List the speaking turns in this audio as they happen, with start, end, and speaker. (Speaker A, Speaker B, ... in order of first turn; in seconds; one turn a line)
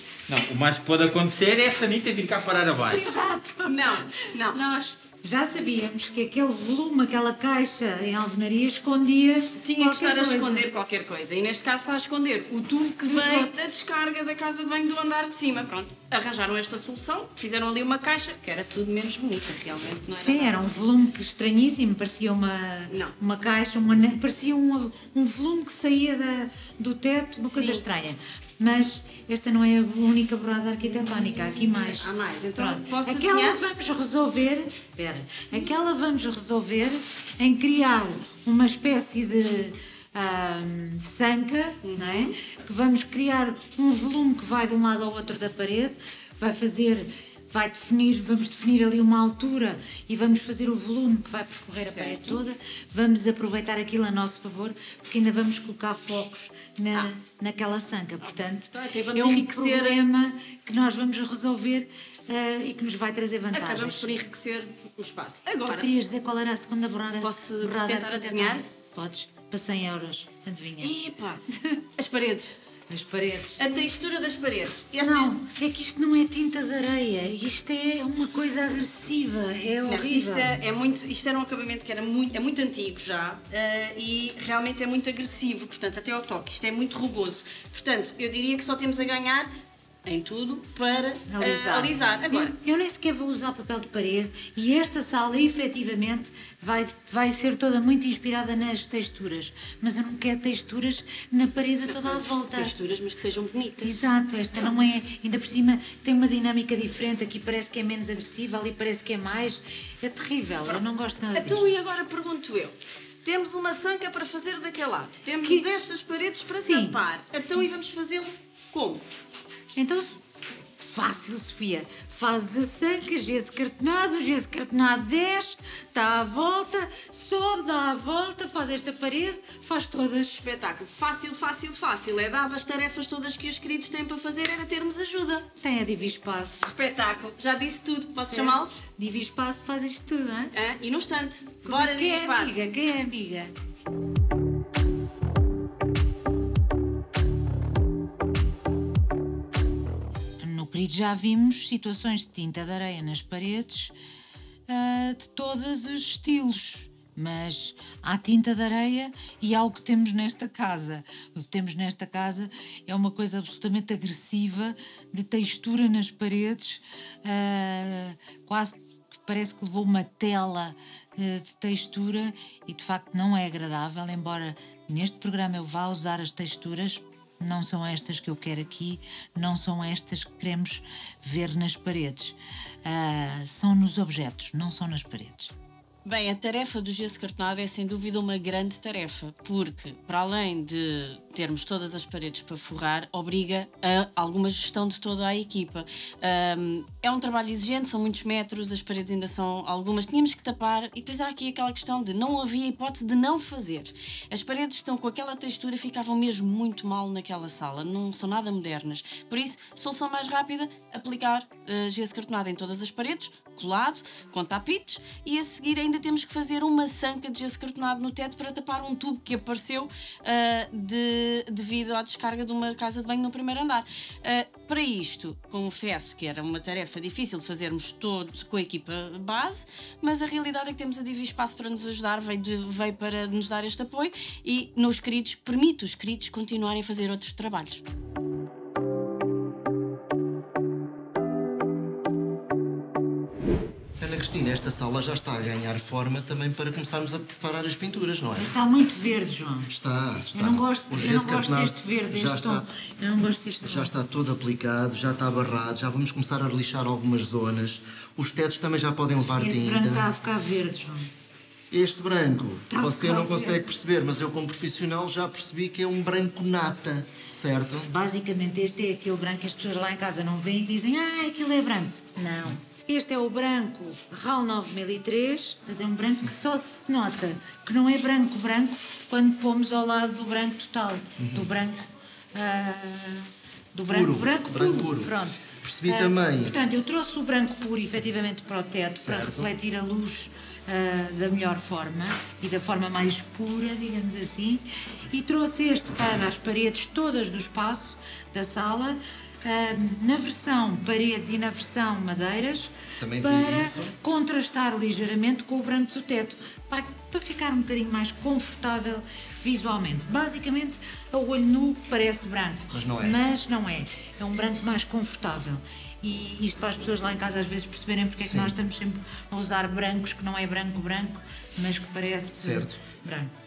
Speaker A: 0.3-3.1
Speaker B: 2.9-10.7
Speaker C: 3.6-4.6
Speaker C: 9.6-20.6
Speaker B: 12.9-13.5
Speaker B: 20.1-64.1
Speaker C: 27.5-27.8
Speaker C: 31.8-33.6
Speaker C: 41.8-42.3
Speaker C: 51.8-52.4
Speaker C: 58.2-60.0
Speaker C: 63.5-65.9
Speaker B: 65.7-70.9
Speaker C: 67.2-68.6
Speaker C: 70.8-71.4
Speaker C: 72.0-72.5
Speaker B: 72.9-73.6
Speaker C: 73.6-75.3
Speaker B: 75.0-80.6
Speaker C: 79.8-89.5
Speaker C: 90.0-92.5
Speaker B: 91.3-102.7
Speaker C: 101.9-104.1
Speaker B: 103.8-111.7
Speaker C: 111.3-119.0
Speaker B: 116.5-117.7
Speaker B: 119.7-120.2
Speaker B: 120.8-130.4
Speaker C: 130.4-135.4
Speaker B: 135.6-136.7
Speaker C: 136.6-138.8
Speaker B: 138.3-140.5
Speaker C: 140.5-142.6
Speaker B: 141.7-143.5
Speaker B: 150.4-153.9
Speaker B: 154.7-185.5
Speaker C: 186.0-237.8
Speaker D: 244.0-248.5
Speaker B: 248.4-249.7
Speaker D: 249.7-252.7
Speaker B: 250.3-253.9
Speaker D: 253.6-260.1
Speaker B: 259.4-261.1
Speaker D: 261.7-267.9
Speaker B: 262.7-263.6
Speaker B: 267.9-323.3
Speaker D: 281.2-281.5
Speaker D: 283.9-286.6
Speaker D: 289.0-289.5
Speaker D: 303.0-303.9
Speaker D: 312.7-313.2
Speaker D: 318.3-318.5
Speaker D: 322.4-322.8